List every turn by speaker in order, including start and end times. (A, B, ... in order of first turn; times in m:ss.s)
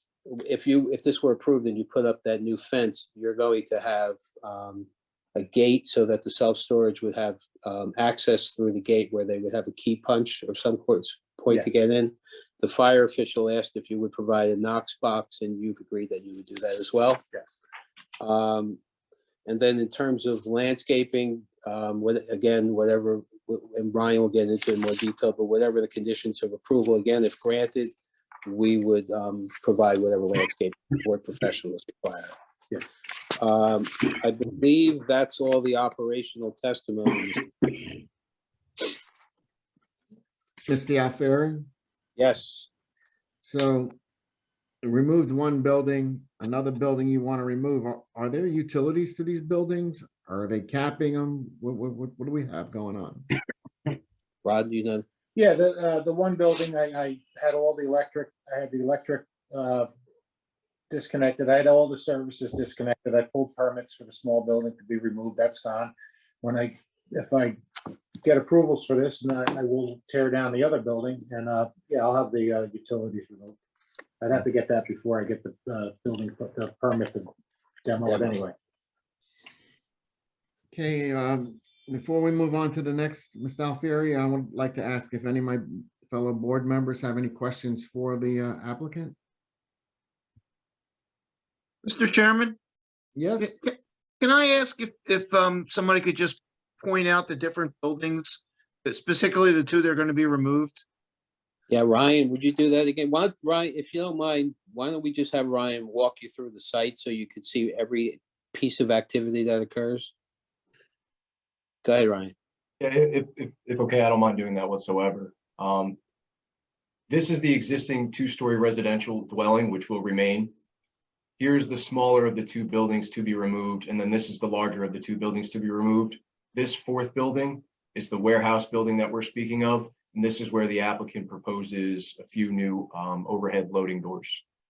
0:00.3-0:17.2 A
0:11.5-0:11.8 B
0:18.2-0:18.8 A
0:19.4-0:27.9 A
0:28.4-0:32.3 A
0:33.3-0:37.9 A
0:40.6-0:41.7 C
0:42.2-0:42.7 A
0:43.4-0:44.0 C
0:44.8-0:53.3 C
0:54.4-0:55.0 A
0:55.3-0:59.9 B
1:00.9-1:07.6 B
1:08.2-1:13.6 B
1:14.2-1:17.3 B
1:17.8-1:18.5 B
1:18.1-1:18.4 A
1:20.7-1:29.1 C
1:31.8-1:32.6 D
1:33.2-1:33.5 C
1:33.4-1:40.8 D
1:41.7-1:50.1 A
1:51.8-1:52.3 A
1:52.8-1:56.0 E
1:57.1-2:00.5 E
2:01.4-2:14.4 E